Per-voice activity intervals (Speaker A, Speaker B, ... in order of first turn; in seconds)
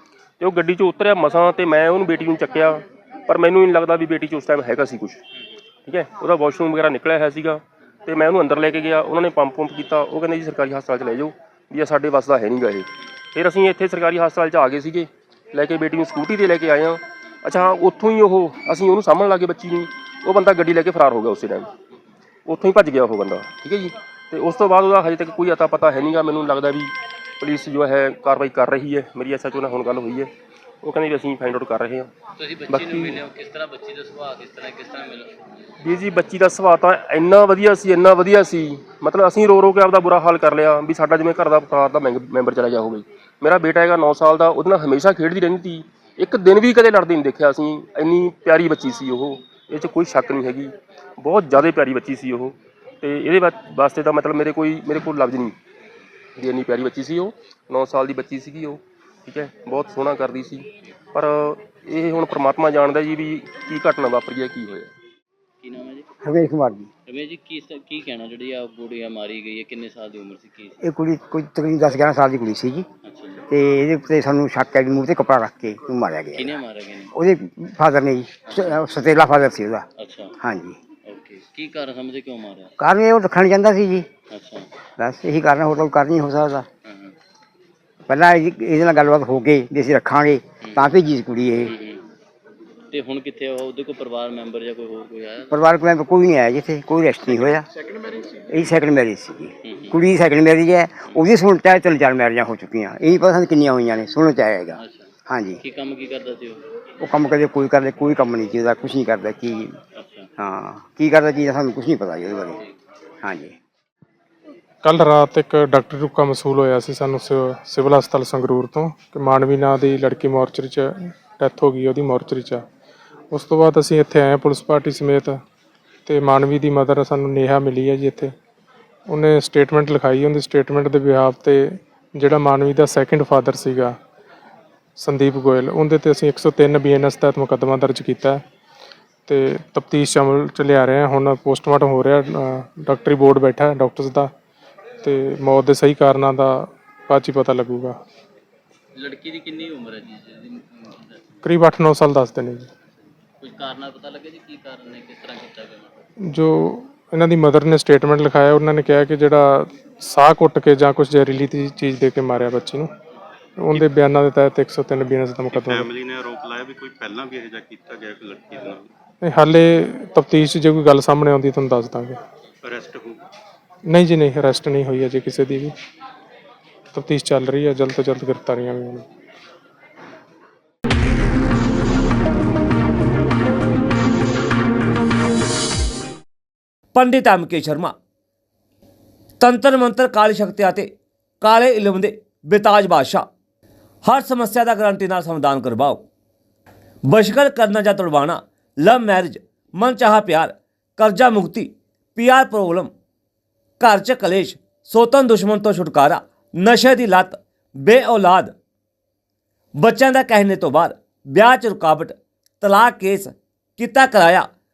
Speaker A: 0.4-5.2, 5.8-21.7, 22.4-30.3, 30.8-32.1, 32.7-33.2, 35.8-55.5, 56.4-64.9
Speaker B: 32.4-35.6, 65.6-66.0, 67.0-70.7, 73.0-73.4, 76.3-77.1, 80.0-80.3, 81.0-82.7, 84.3-84.7, 86.8-87.1, 91.7-92.0, 92.9-95.5, 99.7-99.9, 104.8-105.1, 105.6-106.6, 110.0-110.3, 148.9-151.4, 153.4-156.0
Speaker C: 66.2-66.9, 70.8-72.8, 73.5-76.6, 77.1-79.8, 80.4-80.8, 82.8-84.1, 85.0-86.7, 88.1-91.7, 95.5-97.7, 98.3-105.6, 107.0-109.8, 110.4-112.6, 113.2-113.5
Speaker D: 114.8-122.6, 123.3-125.4, 126.0-128.3, 129.1-134.0, 135.0-138.4, 139.3-144.3, 145.0-148.0, 151.4-152.7, 156.3-162.9, 163.6-165.9, 169.2-172.2, 173.8-175.7, 176.9-179.1
Speaker E: 165.7-168.5, 172.8-173.1
Speaker F: 186.9-187.9, 189.4-190.9, 191.4-193.2, 194.1-196.0, 197.1-202.9, 203.8-208.5, 209.8-214.4